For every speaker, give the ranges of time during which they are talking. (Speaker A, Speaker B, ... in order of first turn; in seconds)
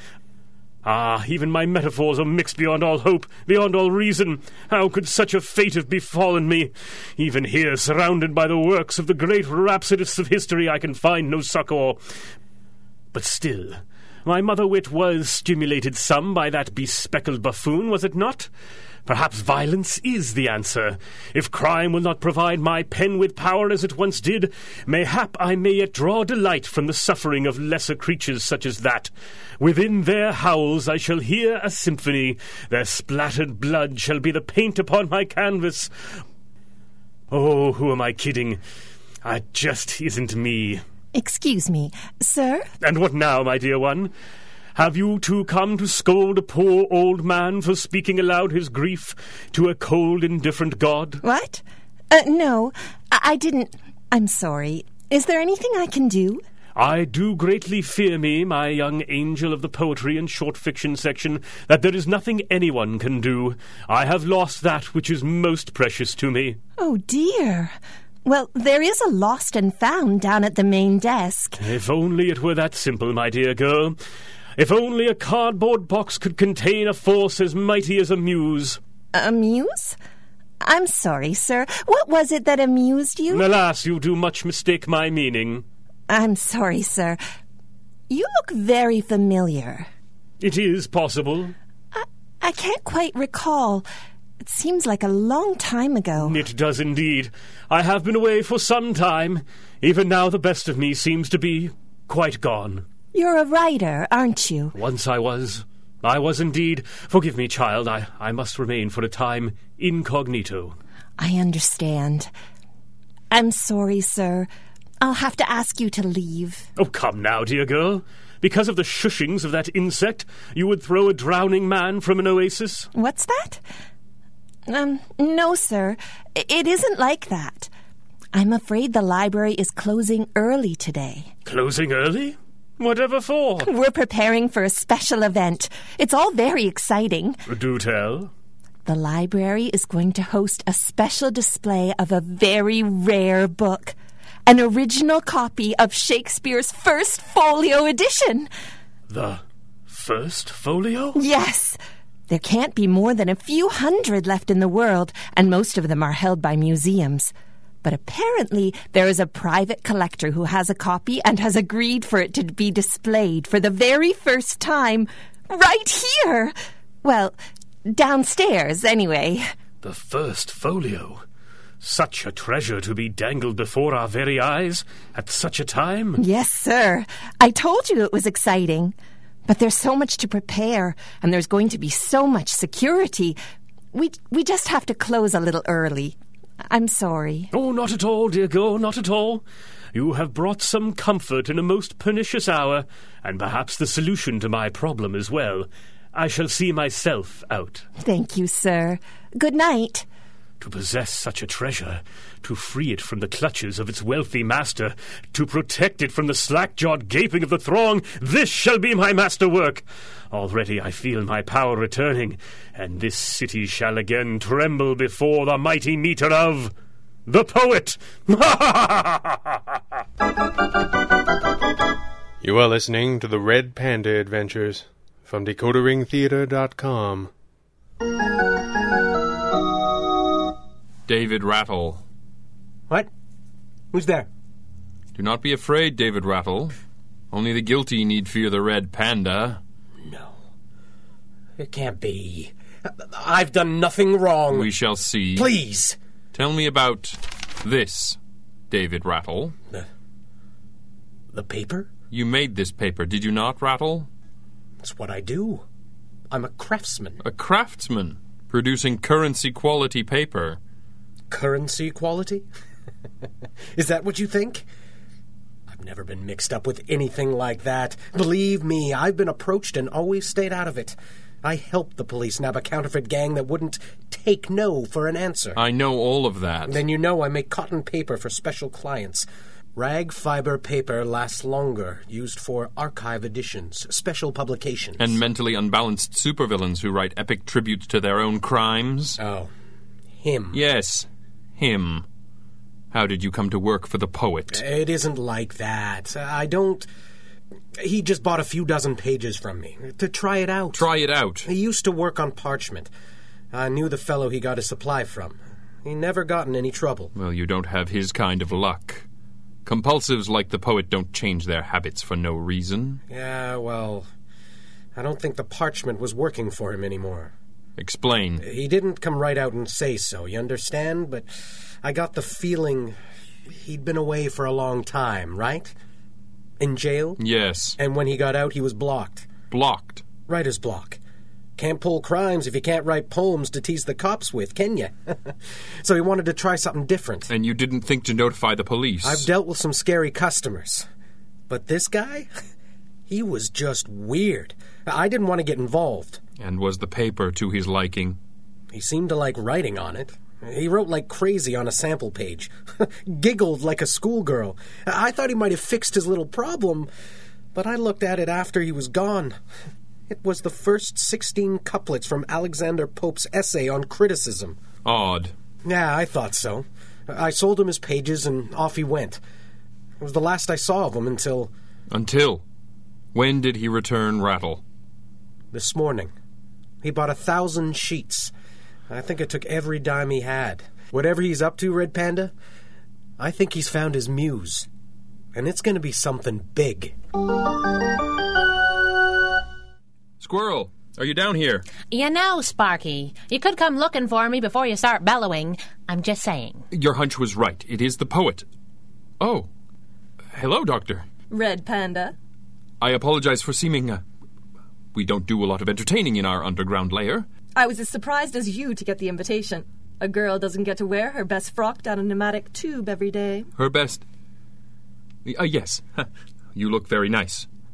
Speaker A: 0.8-12.0, 13.1-18.5, 19.1-35.9, 37.3-38.6, 39.2-40.8, 42.8-44.1, 44.8-51.2, 56.8-66.6, 71.6-74.0, 74.6-78.8, 83.3-85.6, 90.4-91.5, 96.2-102.8, 104.8-110.8, 116.8-122.9, 131.4-133.7, 137.5-138.3, 149.1-151.2, 169.8-171.2, 171.8-176.2, 187.5-189.4, 189.9-197.8, 200.6-216.7, 217.3-219.5
Speaker B: 41.1-42.7, 51.2-56.4, 66.8-71.6, 79.1-80.0, 80.6-83.5, 86.1-87.2, 88.1-89.9, 91.9-93.8, 94.4-96.4, 103.1-104.7, 111.2-112.3, 113.3-114.5, 115.0-116.7, 122.9-123.6, 124.7-127.7, 128.3-131.3, 133.6-137.4, 138.8-148.5, 151.2-169.5, 176.2-178.9, 179.4-183.4, 183.9-186.2, 186.7-187.5, 198.0-200.1
Speaker C: 222.4-227.3
Speaker D: 231.1-232.0, 235.1-236.7, 237.3-239.6, 244.5-245.5, 246.3-248.2, 248.7-249.5, 252.1-254.1, 257.2-260.6, 275.6-276.8, 285.0-289.2, 290.5-292.1, 292.9-294.6, 300.7-301.5, 307.1-309.1, 309.6-313.0, 317.8-318.4, 327.2-327.8, 329.5-330.0, 337.3-339.3, 346.4-348.2, 364.8-365.3, 371.9-372.4, 373.1-374.6, 390.2-391.6, 396.7-398.4, 399.2-399.5, 400.3-401.1, 402.8-404.0, 404.9-407.3, 413.6-414.0, 415.2-417.5
Speaker E: 233.9-234.3, 240.0-240.3, 241.6-244.7, 245.3-246.0, 251.3-251.9, 254.8-255.6, 256.3-257.2, 261.3-262.4, 263.8-264.6, 265.7-275.6, 276.7-285.2, 289.2-289.5, 290.2-290.6, 294.5-296.9, 297.8-300.9, 301.4-302.9, 303.5-307.1, 313.1-314.1, 314.9-317.3, 318.4-321.3, 321.8-322.9, 323.5-325.7, 326.6-327.2, 327.8-329.3, 330.3-331.0, 331.6-337.3, 339.0-340.9, 341.5-342.3, 343.1-346.2, 348.7-356.9, 357.5-359.4, 360.1-364.6, 365.6-369.2, 370.0-371.5, 375.5-376.1, 376.8-378.3, 378.9-382.3, 383.2-384.7, 385.3-386.9
Speaker F: 391.9-396.6
Speaker G: 401.3-402.1, 407.5-413.5